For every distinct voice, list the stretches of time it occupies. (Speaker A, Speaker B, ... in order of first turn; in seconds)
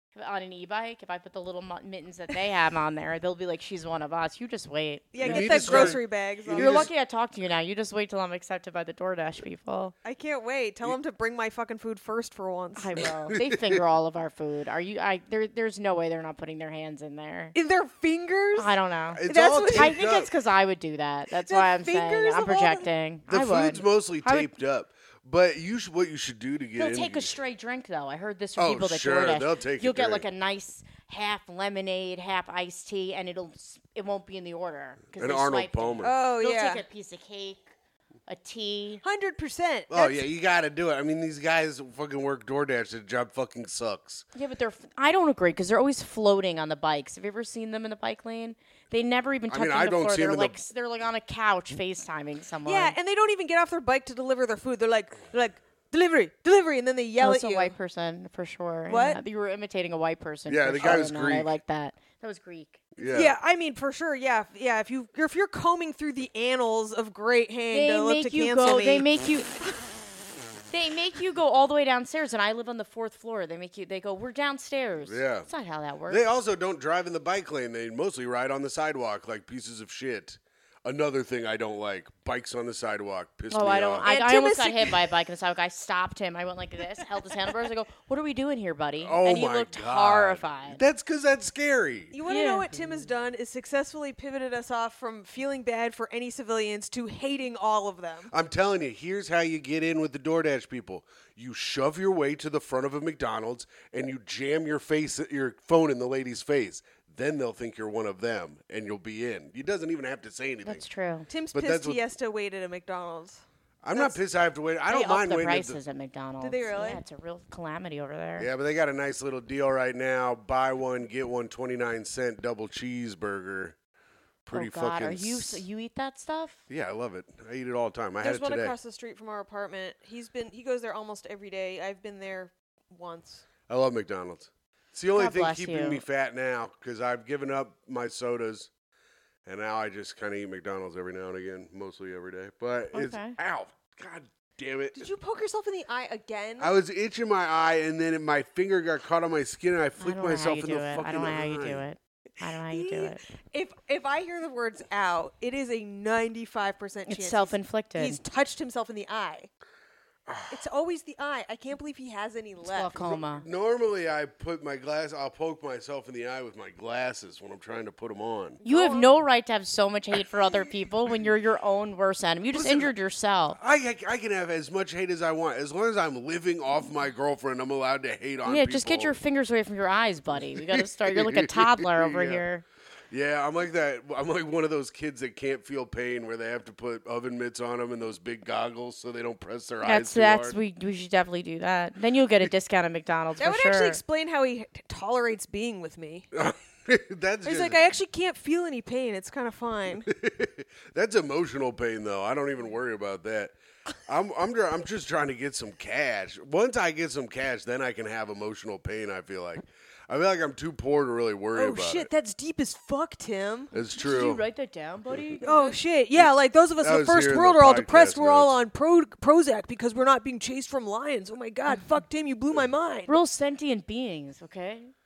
Speaker A: 0.1-6.0, 6.6-9.9, 12.8-17.5, 18.6-24.5, 26.8-37.7, 38.3-39.0, 44.3-53.0, 57.2-62.8, 67.7-69.5, 70.7-76.2, 83.5-90.8, 92.2-92.7, 110.6-111.3, 114.9-118.5, 124.5-126.6, 135.1-136.0, 142.9-143.4, 150.0-153.2, 157.1-158.2, 162.6-163.4, 168.6-173.6, 178.4-182.6, 189.8-194.0, 213.9-215.8, 223.1-224.9
Speaker B: 5.1-6.8, 10.0-12.9, 17.5-19.9, 21.4-22.9, 36.0-36.8, 39.0-40.2, 52.6-57.7, 58.9-59.2, 63.0-69.1, 84.0-85.0, 92.1-98.3, 111.3-113.4, 116.4-117.0, 128.2-133.4, 144.9-146.7, 152.7-159.5, 160.5-163.0, 168.6-169.1, 193.4-196.3, 197.4-200.1, 211.5-213.7, 215.4-223.1
Speaker C: 5.2-6.9, 13.3-13.8, 19.1-20.3, 23.3-27.3, 28.6-30.2, 35.2-36.1, 39.9-44.2, 49.5-50.6, 60.5-61.5, 63.0-63.3, 75.0-75.5, 76.1-84.0, 89.0-92.2, 98.3-110.8, 111.5-112.0, 113.8-115.8, 118.4-123.8, 124.4-125.6, 126.7-128.7, 133.7-138.7, 139.4-145.1, 146.6-151.8, 160.2-160.6, 163.0-168.6, 172.5-172.9, 173.6-179.2, 180.5-182.4, 183.1-190.6, 196.3-197.8, 200.0-203.5, 204.1-212.1, 213.7-214.4, 216.8-218.6